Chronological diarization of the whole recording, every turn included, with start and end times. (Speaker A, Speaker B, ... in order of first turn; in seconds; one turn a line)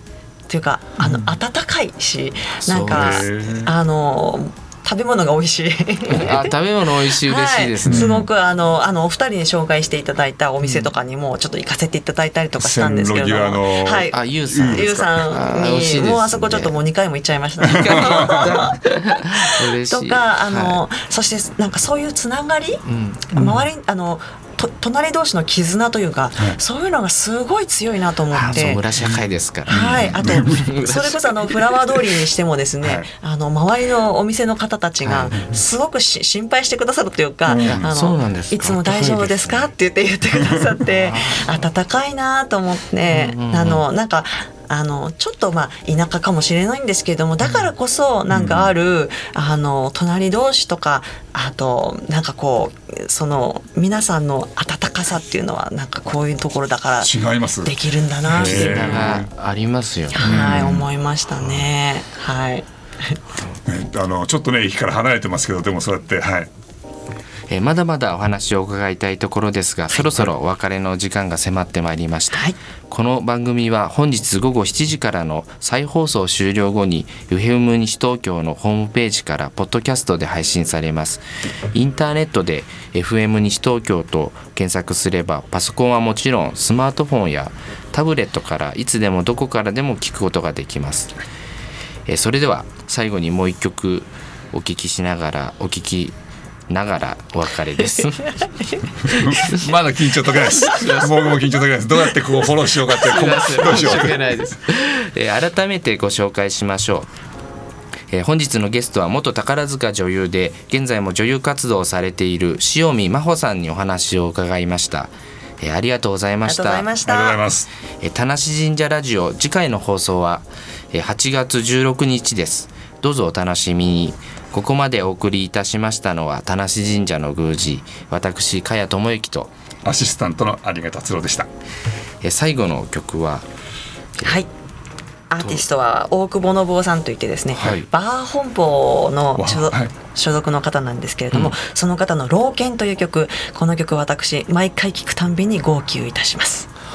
Speaker A: 0.5-28.8
Speaker B: 2.6-3.3
Speaker C: 2.8-3.7
Speaker B: 6.1-8.2
Speaker C: 7.8-8.3
Speaker C: 12.6-14.9
Speaker B: 14.1-16.8
Speaker B: 17.6-20.8
Speaker C: 17.7-18.5
Speaker B: 22.9-23.3
Speaker C: 23.3-23.6
Speaker B: 28.3-31.9
Speaker C: 29.0-30.7
Speaker A: 29.7-59.2
Speaker C: 32.8-33.1
Speaker B: 35.0-35.3
Speaker C: 37.4-37.9
Speaker B: 37.6-39.7
Speaker C: 40.4-40.7
Speaker B: 40.9-41.6
Speaker B: 43.1-43.9
Speaker C: 48.3-48.7
Speaker C: 57.0-57.7
Speaker C: 58.3-59.3
Speaker B: 58.3-60.7
Speaker A: 60.1-63.2
Speaker C: 60.2-60.9
Speaker B: 61.4-61.7
Speaker C: 63.6-66.5
Speaker B: 67.5-91.1
Speaker A: 69.9-70.1
Speaker B: 92.0-96.2
Speaker B: 96.7-98.5
Speaker B: 99.0-99.7
Speaker C: 99.0-104.5
Speaker B: 100.6-101.4
Speaker B: 102.9-107.1
Speaker B: 108.1-116.9
Speaker A: 116.4-117.4
Speaker C: 117.0-117.7
Speaker B: 118.0-129.5
Speaker C: 129.8-131.5
Speaker B: 132.2-133.5
Speaker A: 134.2-134.5
Speaker A: 135.3-146.7
Speaker B: 137.6-137.8
Speaker C: 139.4-139.9